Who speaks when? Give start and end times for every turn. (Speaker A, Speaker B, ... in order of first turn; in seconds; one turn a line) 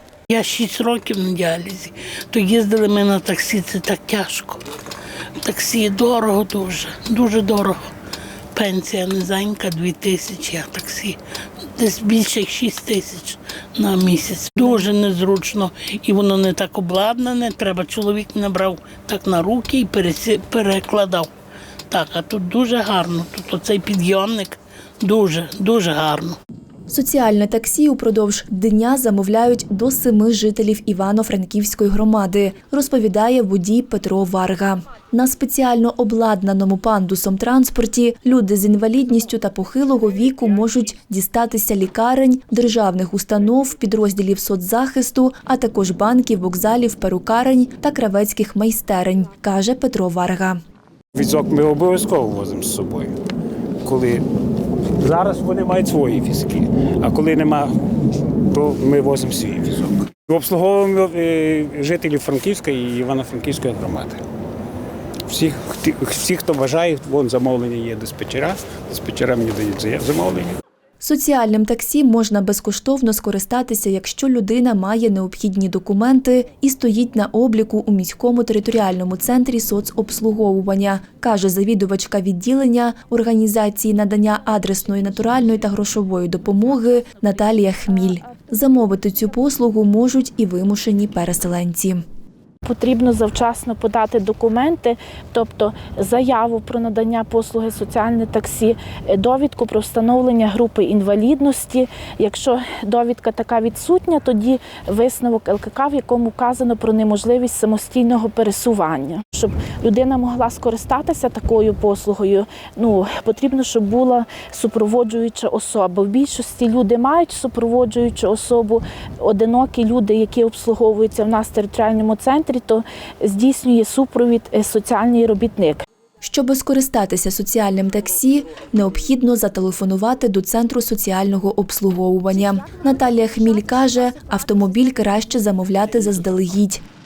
Speaker A: 0.3-4.6
Speaker A: 5.4-7.9
Speaker A: 8.5-21.3
Speaker A: 21.9-26.4
Speaker B: 26.9-50.6
Speaker C: 51.1-53.1
Speaker C: 53.8-54.2
Speaker C: 55.0-64.2
Speaker C: 65.3-70.6
Speaker B: 71.0-92.0
Speaker D: 92.6-125.8
Speaker B: 126.2-136.8
Speaker D: 133.0-133.7